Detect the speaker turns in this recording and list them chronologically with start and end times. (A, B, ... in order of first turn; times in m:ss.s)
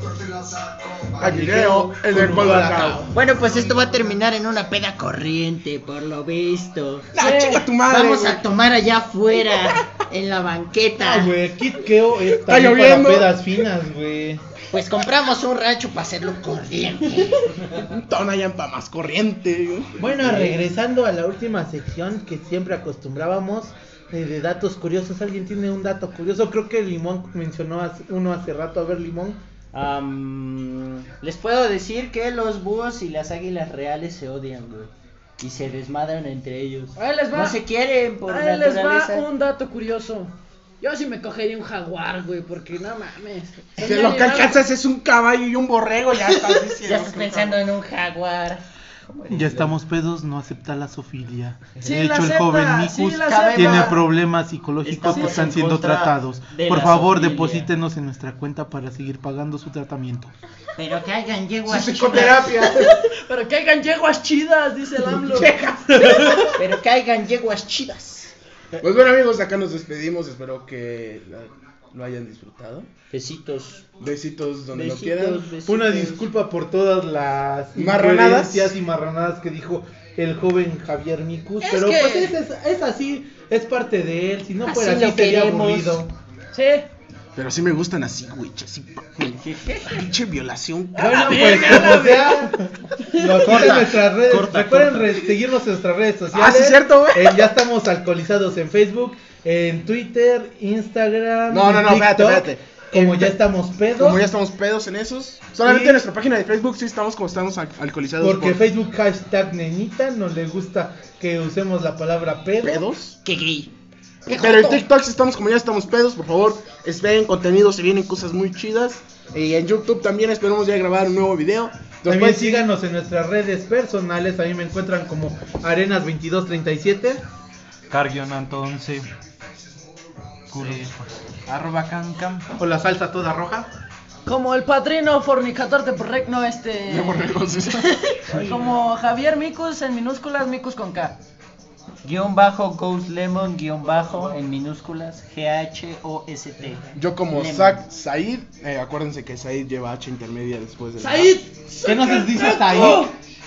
0:01.2-0:03.1 A
0:01.2-0:03.2 B
0:03.1-0:07.1 C
0:07.1-0:08.4 A
0:07.2-0:07.6 D
0:07.8-0:11.3 C
0:09.4-0:09.7 A
0:11.0-0:14.4 B
0:12.3-0:13.5 A
0:14.7-0:17.6 C
0:17.7-0:20.0 A
0:20.0-0:29.4 B
0:29.7-0:39.2 C
0:36.9-0:37.6 D
0:38.2-0:44.6 D
0:43.8-0:47.6 A
0:46.3-0:49.7 C
0:49.3-1:00.3 B
0:51.8-0:54.0 D
0:53.2-0:54.0 C
0:54.8-0:57.7 C
0:55.1-0:55.5 D
1:00.8-1:02.7 C
1:01.6-1:03.0 A
1:02.8-1:05.5 D
1:05.1-1:06.5 A
1:05.9-1:06.6 B
1:06.6-1:08.3 C
1:08.7-1:12.9 A
1:13.1-1:13.8 C
1:14.0-1:15.5 A
1:14.7-1:16.2 C
1:15.6-1:26.1 B
1:17.8-1:18.7 A
1:21.6-1:22.3 D
1:24.7-1:26.0 C
1:26.5-1:26.8 D
1:27.4-1:32.0 A
1:29.4-1:30.0 C
1:30.9-1:33.6 D
1:31.0-1:44.2 B
1:33.4-1:35.2 C
1:36.3-1:37.4 A
1:41.5-1:43.3 A
1:44.0-1:48.6 A
1:45.6-1:46.0 B
1:48.2-1:52.9 B
1:52.6-1:53.2 A
1:53.2-1:53.7 C
1:54.2-1:54.8 D
1:54.3-2:02.7 A
2:02.0-2:07.2 B
2:07.9-2:09.0 E
2:10.5-2:12.5 E
2:12.6-2:13.7 B
2:14.2-2:21.2 D
2:16.9-2:17.8 A
2:18.3-2:18.7 C
2:22.0-2:27.8 C
2:26.9-2:31.4 A
2:31.0-2:33.1 D
2:31.8-2:33.1 B